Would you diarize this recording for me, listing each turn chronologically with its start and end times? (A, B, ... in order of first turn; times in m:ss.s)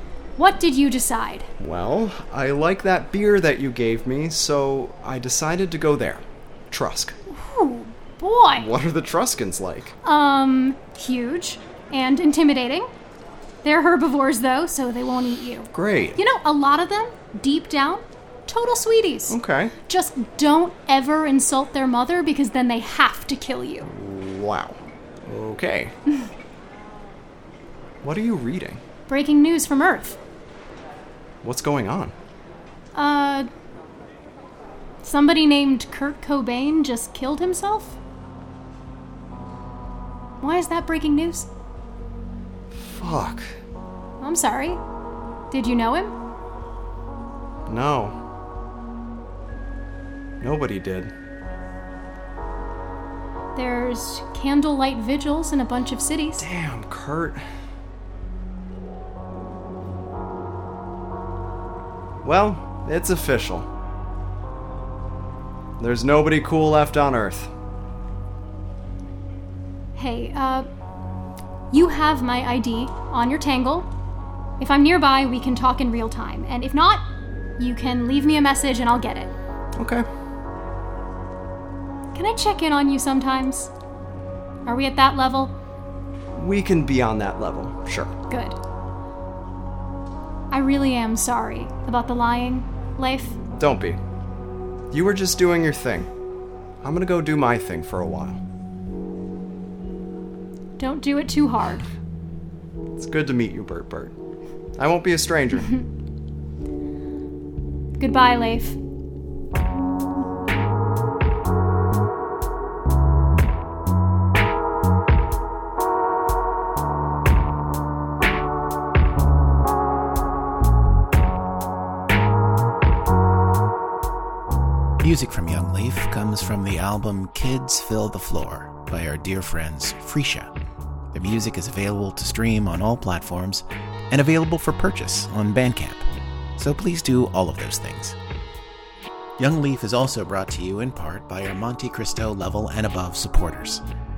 0:00.4-0:01.5 A
0:01.6-0:07.2 B
0:07.3-0:08.7 A
0:08.6-0:09.9 B
0:10.0-0:12.9 A
0:13.6-0:23.9 A
0:15.7-0:16.2 B
0:19.3-0:19.7 B
0:23.8-0:25.9 B
0:28.0-0:28.8 B
0:29.1-0:30.2 A
0:31.4-0:32.1 B
0:33.0-0:33.5 A
0:35.0-0:38.0 A
0:40.4-0:41.5 A
0:42.7-0:43.5 B
0:44.2-0:44.8 A
0:45.5-0:46.1 A
0:47.7-0:48.2 B
0:50.4-0:51.1 B
0:53.6-0:56.5 A
0:56.4-0:57.4 B
1:02.2-1:03.7 B
1:05.8-1:07.5 B
1:10.0-1:10.7 A
1:11.7-1:13.9 A
1:14.6-1:17.0 A
1:17.6-1:19.3 A
1:19.8-1:20.1 B
1:22.1-1:23.7 A
1:24.6-1:25.6 A
1:26.3-1:28.1 B
1:28.3-1:28.6 A
1:30.5-1:33.4 A
1:33.6-1:34.0 B
1:34.9-1:36.1 B
1:36.8-1:38.4 B
1:40.8-1:41.9 A
1:43.0-1:44.2 B
1:44.8-1:45.8 B
1:48.0-1:48.8 A
2:05.0-2:10.5 C
2:11.1-2:18.2 C
2:19.4-2:23.8 C